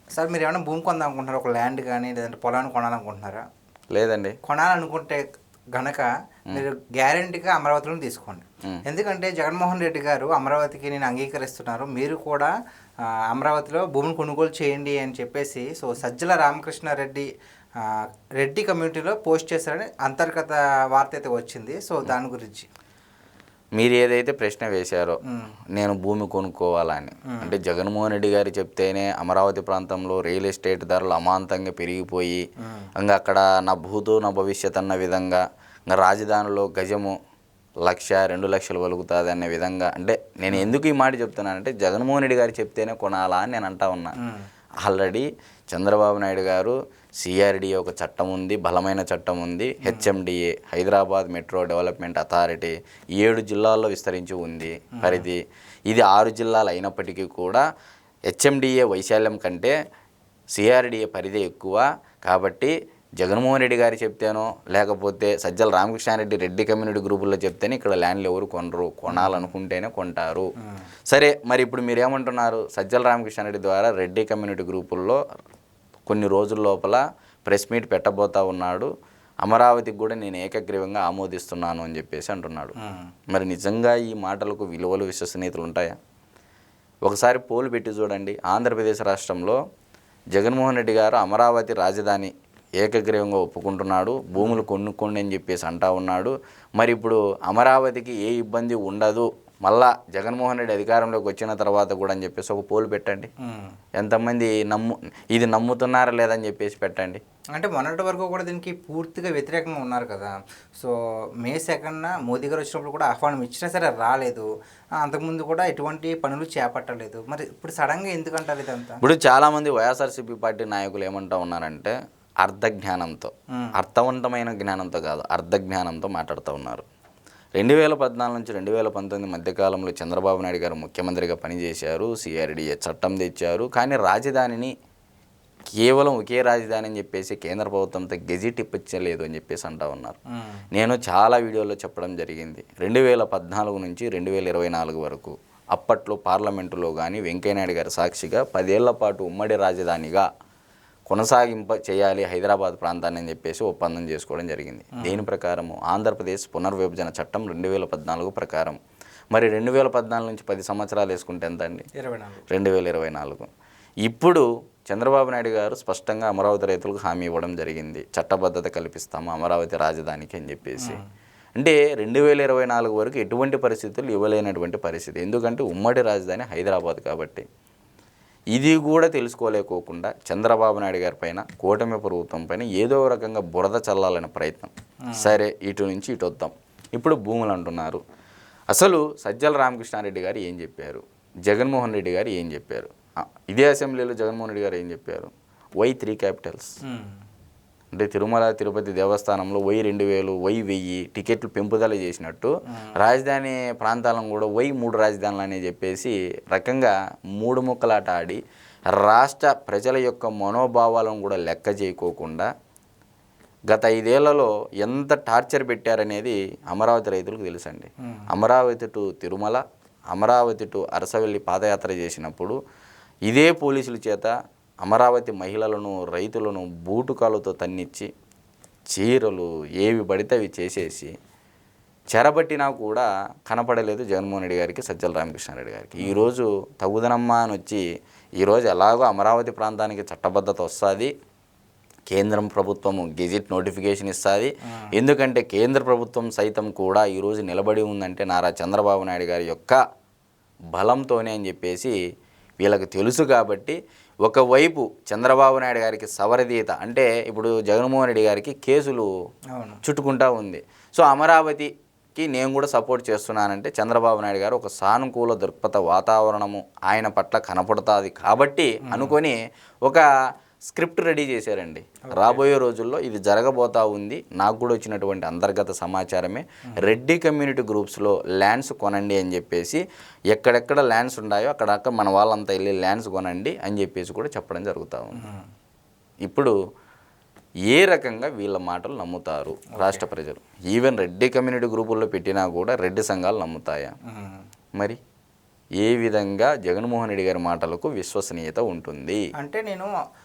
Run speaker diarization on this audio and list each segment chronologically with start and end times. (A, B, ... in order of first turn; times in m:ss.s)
0:00.2-0:03.4 A
0:03.9-0:04.4 B
0:04.4-0:05.2 A
0:05.8-0:12.5 A
0:13.3-0:17.3 A
0:17.8-0:22.7 A
0:23.8-0:25.2 B
0:25.3-0:25.5 A
0:25.8-0:32.4 B
0:27.3-0:27.5 A
0:32.6-0:32.9 A
0:33.0-0:37.2 B
0:37.9-0:44.2 B
0:44.8-0:57.6 B
0:49.8-0:50.1 A
0:55.0-0:55.3 A
0:58.3-0:59.7 B
1:00.6-1:10.5 B
1:09.1-1:09.5 A
1:11.1-1:15.2 B
1:16.1-1:18.9 B
1:19.4-1:22.8 B
1:22.8-1:23.1 A
1:23.3-1:26.0 B
1:27.0-1:29.6 B
1:30.4-1:43.3 B
1:34.4-1:34.6 A
1:43.4-1:43.7 A
1:44.0-1:47.2 B
1:47.5-1:59.0 A
1:59.0-2:06.8 B
2:07.6-2:14.7 B
2:15.8-2:20.2 B
2:20.4-2:20.6 A
2:20.7-2:30.3 B
2:31.1-2:38.8 B
2:35.0-2:35.2 A
2:39.3-2:41.9 B
2:42.0-2:42.4 A
2:42.5-2:43.5 B
2:44.0-2:51.0 B
2:51.6-2:57.5 B
2:58.6-3:08.0 B
3:05.1-3:05.4 A
3:08.7-3:16.7 B
3:16.8-3:17.2 A
3:17.9-3:28.4 B
3:22.7-3:23.0 A
3:28.9-3:32.5 B
3:33.7-3:42.6 B
3:38.0-3:38.3 A
3:43.3-3:48.1 B
3:48.9-3:51.1 B
3:52.1-3:57.8 B
3:56.0-3:56.3 A
3:58.4-4:01.1 B
4:02.1-4:09.8 B
4:10.7-4:12.0 B
4:12.6-4:19.1 B
4:19.5-4:19.8 A
4:19.8-4:30.1 B
4:28.8-4:29.2 A
4:30.7-4:45.3 B
4:32.0-4:32.4 A
4:45.2-4:45.5 A
4:46.2-4:46.6 B
4:47.7-4:53.9 B
4:49.8-4:50.0 A
4:54.1-4:54.4 A
4:55.8-4:59.2 B
4:59.4-4:59.9 A